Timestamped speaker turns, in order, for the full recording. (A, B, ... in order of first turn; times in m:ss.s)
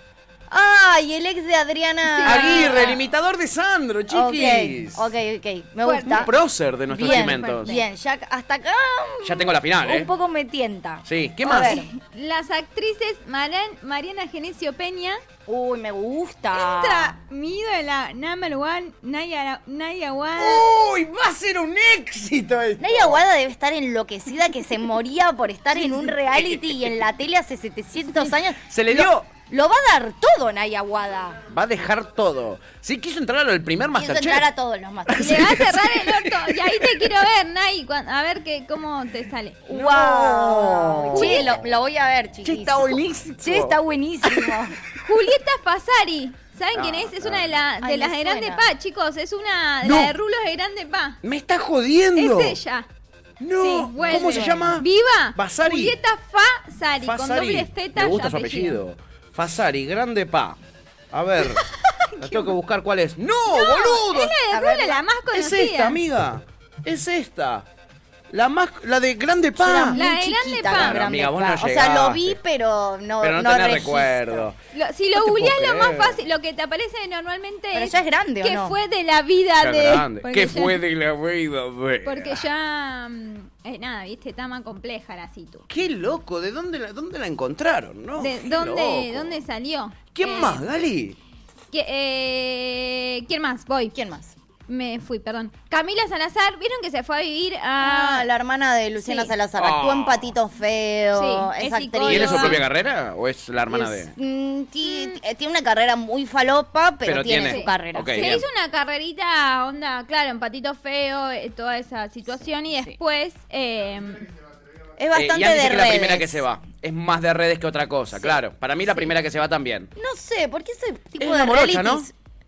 0:00.5-0:03.0 A
0:02.0-0:03.0 B
0:02.2-0:05.1 C
0:04.1-0:06.3 A
0:05.8-0:06.3 B
0:06.0-0:07.7 C
0:06.9-0:11.9 A
0:06.9-0:07.8 B
0:09.2-0:10.1 C
0:11.0-0:11.8 C
0:11.5-0:15.2 B
0:15.5-0:17.1 A
0:16.5-0:20.7 B
0:20.4-0:23.2 C
0:22.8-0:31.4 A
0:26.3-0:26.6 C
0:28.7-0:29.3 C
0:31.5-0:34.5 C
0:34.0-0:35.6 A
0:35.1-0:36.5 C
0:35.2-0:39.7 B
0:39.7-0:44.8 A
0:39.7-0:41.7 C
0:41.1-0:41.5 B
0:42.4-0:44.6 C
0:45.0-0:51.2 B
0:46.7-0:47.5 C
0:47.8-0:48.6 A
0:49.8-0:50.1 C
0:51.2-0:52.6 C
0:52.2-0:52.9 B
0:53.4-0:56.0 C
0:53.6-0:58.8 B
0:54.0-0:54.8 A
0:57.0-1:00.6 C
1:01.1-1:01.6 C
1:01.8-1:02.5 B
1:02.2-1:04.4 C
1:03.5-1:06.0 B
1:04.5-1:05.0 A
1:05.3-1:07.6 C
1:08.3-1:10.0 C
1:09.6-1:14.5 A
1:09.9-1:11.0 B
1:10.7-1:12.4 C
1:13.2-1:14.6 C
1:14.7-1:20.8 B
1:15.1-1:16.2 C
1:17.7-1:18.8 A
1:19.6-1:22.4 C
1:22.0-1:25.6 B
1:25.7-1:29.4 C
1:28.2-1:30.6 B
1:30.1-1:31.2 C
1:31.7-1:34.0 B
1:33.9-1:34.4 A
1:34.7-1:38.3 B
1:37.8-1:42.6 A
1:39.0-1:39.3 B
1:39.6-1:40.3 C
1:41.1-1:42.6 B
1:42.0-1:44.1 C
1:43.7-1:48.4 A
1:44.9-1:45.1 B
1:47.0-1:48.4 C
1:47.4-1:54.3 B
1:55.0-1:56.4 A
1:55.1-1:59.9 C
2:00.0-2:02.1 A
2:01.2-2:02.1 C